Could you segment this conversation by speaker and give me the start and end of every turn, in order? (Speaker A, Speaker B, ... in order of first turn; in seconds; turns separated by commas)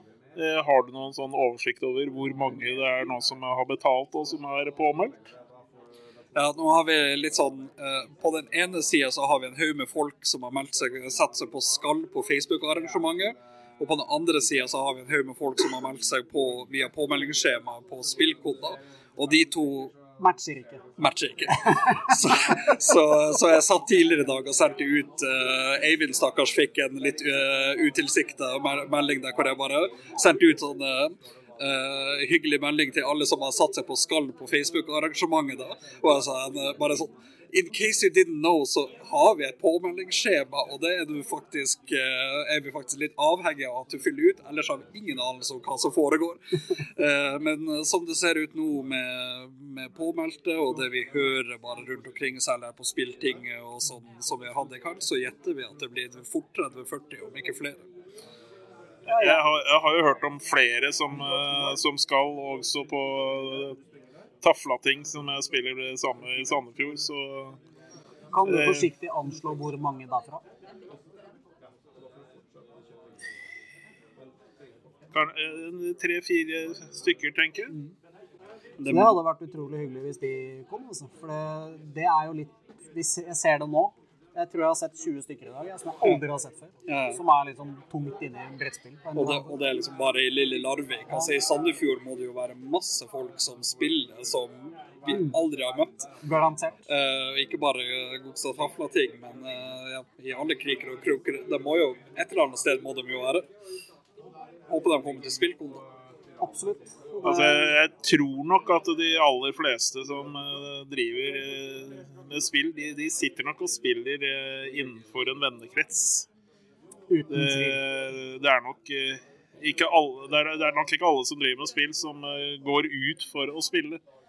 Speaker A: 0.4-5.3, Speaker B: 6.3-19.9, Speaker C: 20.2-20.8, Speaker B: 21.0-57.8, Speaker C: 21.6-22.1, Speaker C: 59.1-59.4, Speaker A: 59.1-63.8, Speaker A: 64.4-67.6, Speaker C: 68.3-70.4, Speaker A: 68.4-68.9, Speaker A: 75.1-77.7, Speaker B: 78.8-79.2, Speaker C: 78.9-89.5, Speaker B: 86.9-87.2, Speaker B: 89.2-96.1, Speaker C: 96.2-96.8, Speaker B: 96.9-103.5, Speaker B: 104.7-105.8, Speaker C: 106.4-107.7, Speaker A: 107.2-116.3, Speaker C: 117.1-117.8, Speaker A: 117.3-124.0